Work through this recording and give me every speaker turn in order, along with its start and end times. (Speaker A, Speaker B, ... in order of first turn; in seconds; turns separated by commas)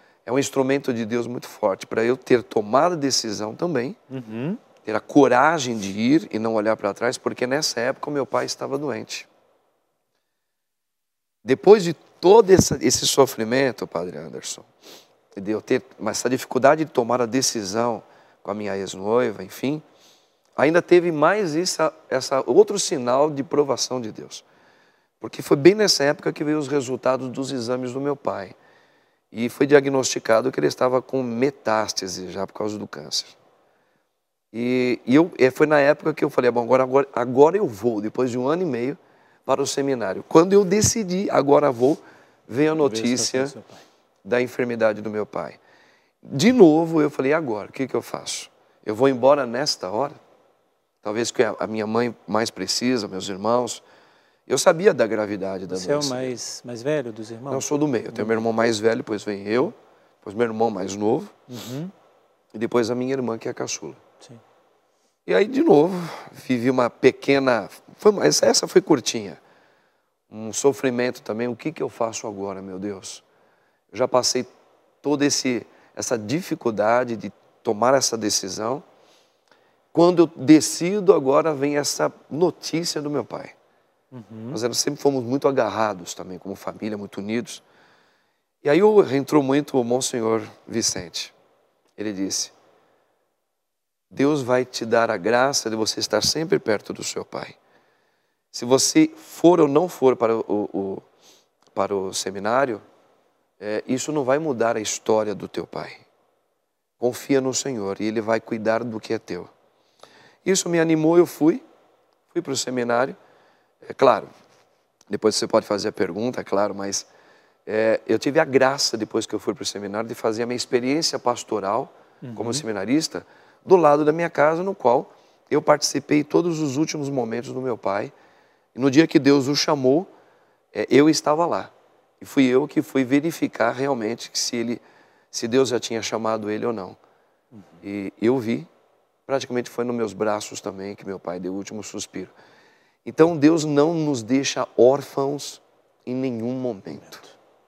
Speaker A: 0.3-4.0, Speaker B: 4.1-4.6, Speaker A: 4.8-9.3, Speaker A: 11.4-14.7, Speaker A: 15.3-19.9, Speaker A: 20.6-24.4, Speaker A: 25.2-28.6, Speaker A: 29.3-33.4, Speaker A: 34.5-43.5, Speaker B: 42.8-43.9, Speaker A: 44.2-45.6, Speaker A: 46.2-50.2, Speaker A: 51.0-53.8, Speaker A: 54.5-56.4, Speaker B: 55.7-58.4, Speaker A: 57.5-61.4, Speaker B: 61.5-61.9, Speaker A: 62.5-64.0, Speaker A: 65.3-69.4, Speaker A: 70.3-73.2, Speaker A: 73.9-74.5, Speaker A: 75.0-78.8, Speaker A: 79.9-83.5, Speaker B: 84.1-84.6, Speaker A: 84.5-87.6, Speaker A: 88.6-91.3, Speaker A: 92.0-92.5, Speaker A: 94.1-97.6, Speaker A: 98.5-101.1, Speaker A: 101.7-102.8, Speaker A: 103.6-106.0, Speaker A: 107.0-109.5, Speaker A: 110.4-111.6, Speaker A: 112.3-113.2, Speaker A: 113.8-114.3, Speaker A: 115.1-117.1, Speaker A: 117.7-128.1, Speaker B: 122.2-122.6, Speaker A: 128.8-130.1, Speaker A: 130.7-137.0, Speaker B: 137.5-137.8, Speaker A: 137.8-138.7, Speaker A: 139.3-142.3, Speaker A: 143.1-147.2, Speaker B: 147.0-147.3